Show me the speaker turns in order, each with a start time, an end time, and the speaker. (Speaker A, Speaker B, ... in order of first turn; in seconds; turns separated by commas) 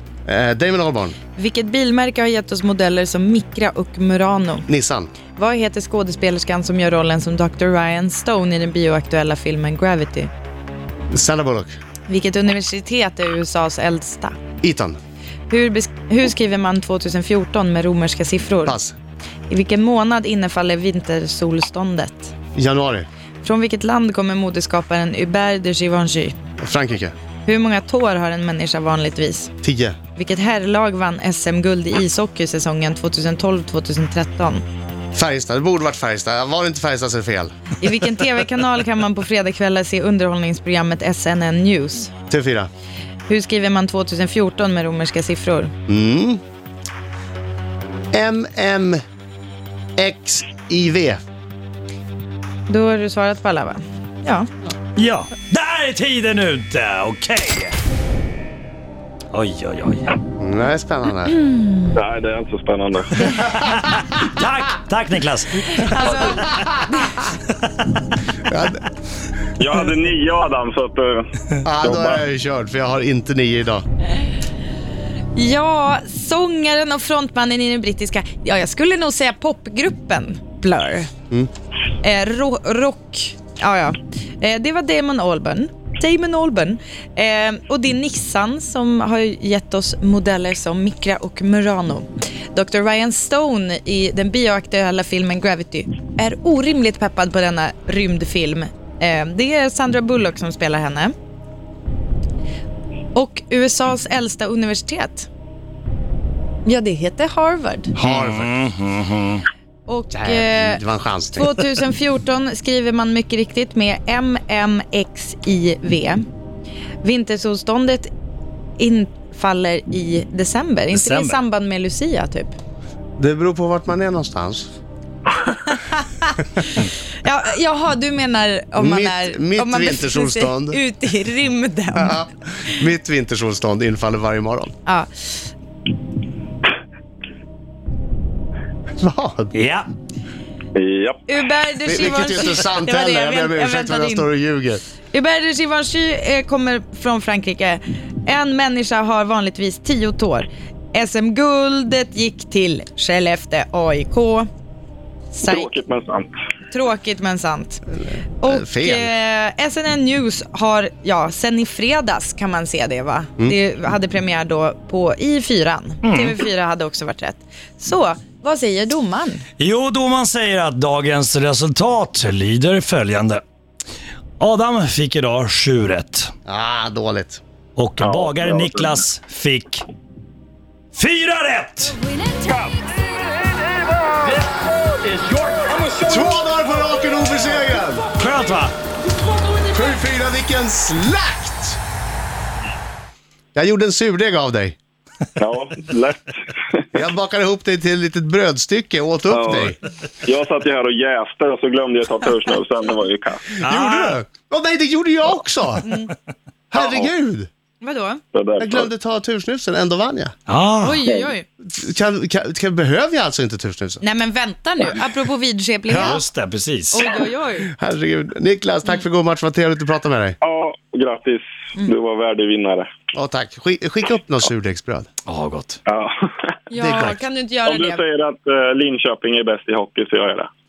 Speaker A: 0.2-1.2, Speaker B: 1.3-4.7, Speaker A: 4.7-5.1, Speaker B: 5.3-10.3, Speaker A: 11.1-11.7, Speaker B: 12.1-14.4, Speaker A: 14.6-15.0, Speaker B: 15.5-18.8, Speaker A: 18.6-18.9, Speaker B: 19.5-22.3, Speaker A: 22.6-23.1, Speaker B: 23.4-26.3, Speaker A: 26.6-27.1, Speaker B: 27.4-29.5, Speaker A: 29.6-30.0, Speaker B: 30.1-34.6, Speaker A: 35.1-37.5, Speaker B: 37.8-42.1, Speaker A: 42.3-42.7, Speaker B: 43.3-45.7, Speaker A: 45.9-46.4, Speaker A: 48.1-49.0, Speaker A: 50.0-51.2, Speaker B: 52.7-54.5, Speaker C: 55.0-57.8, Speaker C: 59.3-60.1, Speaker A: 60.4-61.3, Speaker B: 61.3-61.9, Speaker D: 61.9-63.3, Speaker C: 63.3-65.8, Speaker B: 65.7-67.2, Speaker A: 66.0-66.7, Speaker A: 68.5-68.8, Speaker D: 69.6-71.3, Speaker A: 71.6-73.8, Speaker D: 71.8-72.2, Speaker B: 75.3-81.1, Speaker B: 82.0-101.1, Speaker B: 103.1-105.3, Speaker B: 106.7-107.9, Speaker A: 108.0-108.5, Speaker C: 108.0-109.5, Speaker B: 109.9-110.8, Speaker A: 110.1-111.6, Speaker B: 111.3-116.2, Speaker B: 117.0-118.1, Speaker B: 118.8-122.6, Speaker C: 120.9-121.4, Speaker A: 123.2-124.7, Speaker B: 125.5-132.2, Speaker A: 128.8-130.8, Speaker A: 131.9-134.8, Speaker A: 138.9-139.5, Speaker C: 139.5-139.9, Speaker D: 140.8-141.2, Speaker B: 141.3-144.3, Speaker A: 141.8-144.8, Speaker B: 145.1-154.5, Speaker B: 155.3-155.7, Speaker D: 155.4-156.3, Speaker B: 156.7-157.8, Speaker B: 158.4-169.4, Speaker A: 158.4-159.1, Speaker C: 166.0-166.3, Speaker C: 169.6-173.4, Speaker C: 174.4-176.3, Speaker A: 176.5-177.4, Speaker C: 177.8-179.8, Speaker D: 178.0-179.0, Speaker C: 180.9-182.0, Speaker D: 185.2-185.8, Speaker A: 186.0-188.1, Speaker C: 188.2-188.7, Speaker A: 189.6-191.8, Speaker A: 193.6-194.8, Speaker D: 195.4-196.9, Speaker A: 196.9-199.8, Speaker D: 199.3-203.6, Speaker C: 203.6-204.1, Speaker A: 203.6-205.9, Speaker B: 205.8-206.1, Speaker A: 206.7-207.5, Speaker D: 206.8-207.1, Speaker B: 207.8-208.2, Speaker D: 208.3-208.9, Speaker A: 208.6-210.3, Speaker C: 210.5-211.0, Speaker B: 210.8-211.4, Speaker A: 211.6-214.0, Speaker B: 214.0-216.2, Speaker A: 215.9-216.2, Speaker C: 215.9-217.0, Speaker B: 216.9-217.7, Speaker A: 217.7-220.4, Speaker D: 220.4-222.9, Speaker A: 223.1-225.1, Speaker C: 225.2-225.8, Speaker D: 225.8-226.6, Speaker B: 226.7-228.0, Speaker A: 226.8-227.2, Speaker D: 227.6-230.5